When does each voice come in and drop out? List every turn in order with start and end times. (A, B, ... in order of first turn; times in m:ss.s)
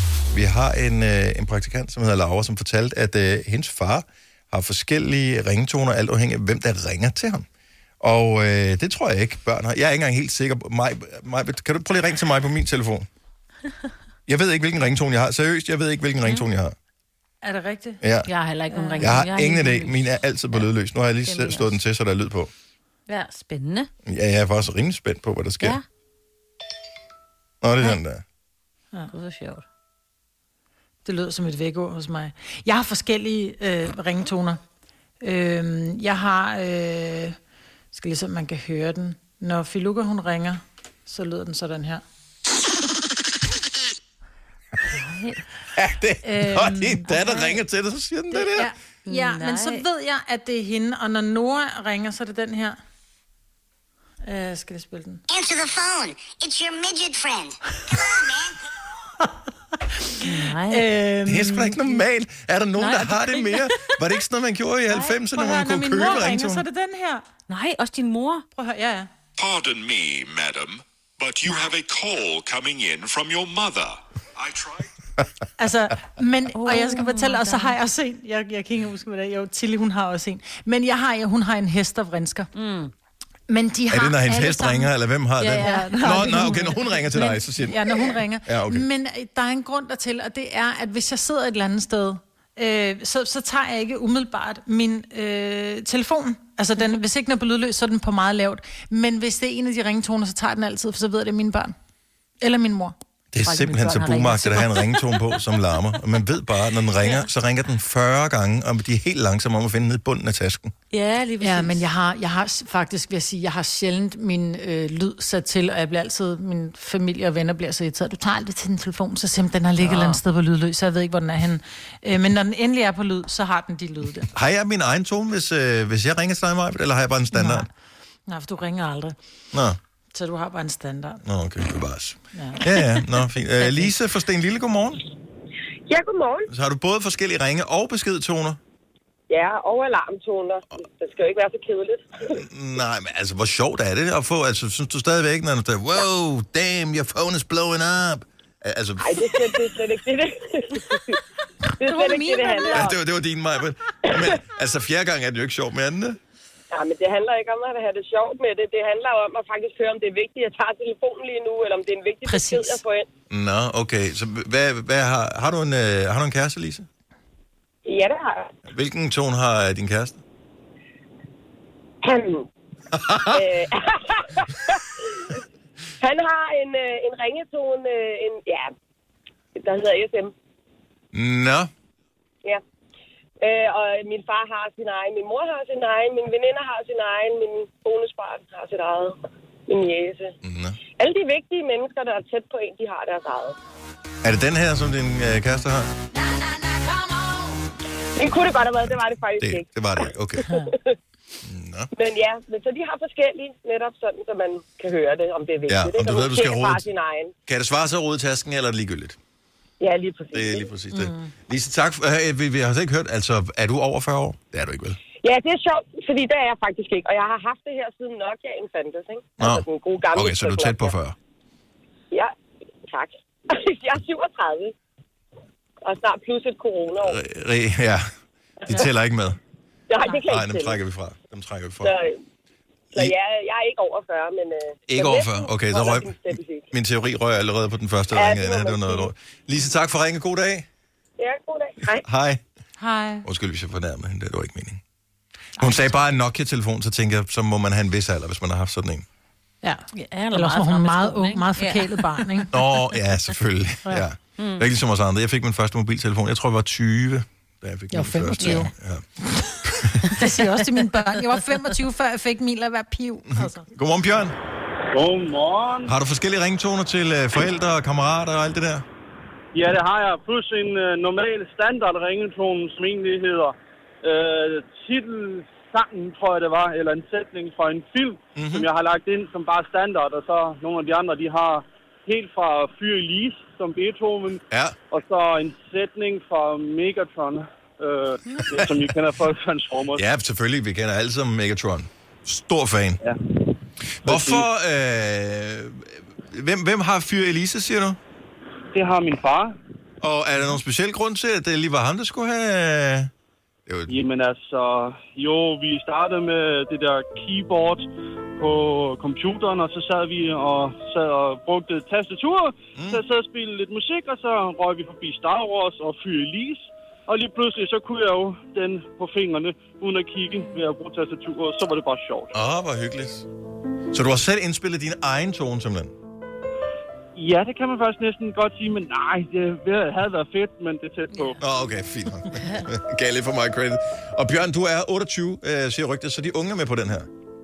0:00.3-0:07.4 A
0:08.0-0:13.1 A
0:14.3-0:16.7 A
0:17.4-0:19.3 B
0:18.0-0:18.3 A
0:18.7-0:20.7 C
0:19.0-0:22.5 A
0:21.2-0:21.8 C
0:23.1-0:23.9 C
0:24.0-0:25.8 A
0:27.6-0:28.2 A
0:29.1-0:29.6 C
0:31.0-0:34.6 B
0:35.2-0:37.4 B
0:37.9-0:42.0 B
0:44.9-0:45.4 C
0:45.8-0:48.7 A
0:46.2-0:47.1 B
0:47.1-0:47.6 C
0:48.3-0:52.8 B
0:49.0-0:49.8 C
0:54.2-0:55.2 B
0:55.3-0:58.6 D
1:00.1-1:01.8 B
1:00.2-1:00.9 C
1:01.2-1:06.6 A
1:02.8-1:03.7 B
1:04.9-1:07.3 B
1:07.5-1:08.4 C
1:08.5-1:09.1 B
1:09.4-1:14.8 E
1:15.6-1:22.5 B
1:16.5-1:17.8 C
1:22.6-1:22.9 C
1:23.5-1:24.9 B
1:23.9-1:28.9 A
1:25.4-1:26.6 C
1:25.6-1:41.7 B
1:42.4-1:44.8 B
1:43.3-1:50.7 A
1:50.9-1:51.8 C
1:51.4-2:04.3 B
2:04.3-2:07.7 A
2:07.3-2:07.7 B
2:08.3-2:09.2 B
2:10.1-2:11.2 B
2:11.2-2:15.0 A
2:12.3-2:12.6 B
2:15.9-2:16.5 F
2:16.5-2:18.6 A
2:19.3-2:22.4 F
2:22.3-2:29.4 A
2:29.0-2:31.2 F
2:31.8-2:33.0 F
2:31.8-2:32.9 B
2:32.7-2:36.2 A
2:36.7-2:43.0 F
2:42.2-2:42.8 B
2:43.3-2:46.8 A
2:47.8-2:48.5 F
2:48.7-2:50.2 A
2:52.0-2:52.5 F
2:52.9-2:53.3 A
2:53.3-2:55.3 F
2:56.0-2:58.7 F
2:59.6-3:00.3 F
3:01.1-3:01.7 A
3:03.4-3:09.2 F
3:09.7-3:10.3 F
3:10.4-3:10.8 A
3:11.0-3:13.6 F
3:14.2-3:15.9 A
3:18.2-3:19.7 F
3:18.8-3:20.4 A
3:20.5-3:21.0 F
3:21.4-3:21.9 A
3:21.9-3:27.3 F
3:25.7-3:26.8 A
3:27.5-3:29.2 A
3:29.8-3:30.7 F
3:30.3-3:35.0 A
3:30.9-3:31.3 B
3:35.2-3:40.9 F
3:39.4-3:41.1 A
3:42.8-3:44.7 F
3:45.8-3:47.2 F
3:47.0-3:48.0 A
3:48.7-3:49.4 A
3:49.9-3:50.8 F
3:50.2-3:51.9 A
3:51.8-3:52.2 F
3:52.9-3:56.7 F
3:54.9-4:00.6 A
3:58.1-3:59.1 F
4:01.2-4:02.0 F
4:02.0-4:02.4 A
4:02.8-4:03.2 B
4:03.2-4:04.8 A
4:05.6-4:05.9 B
4:05.6-4:09.0 A
4:09.6-4:12.6 B
4:09.9-4:12.5 C
4:12.5-4:19.0 A
4:14.4-4:14.6 C
4:17.9-4:18.7 B
4:18.4-4:18.7 C
4:19.6-4:20.1 A
4:20.1-4:23.7 B
4:23.4-4:24.4 A
4:24.9-4:25.9 G
4:25.8-4:28.8 A
4:29.5-4:50.0 G
4:38.4-4:38.7 A
4:48.4-4:48.8 A
4:49.9-4:53.0 A
4:54.0-4:58.0 A
4:54.0-4:54.5 G
4:58.7-4:59.6 G
5:00.0-5:03.1 A
5:03.7-5:04.0 A
5:03.9-5:22.3 G
5:12.8-5:13.0 A
5:20.3-5:20.6 C
5:22.3-5:23.3 A
5:23.9-5:25.9 A
5:27.2-5:31.4 G
5:31.4-5:37.1 A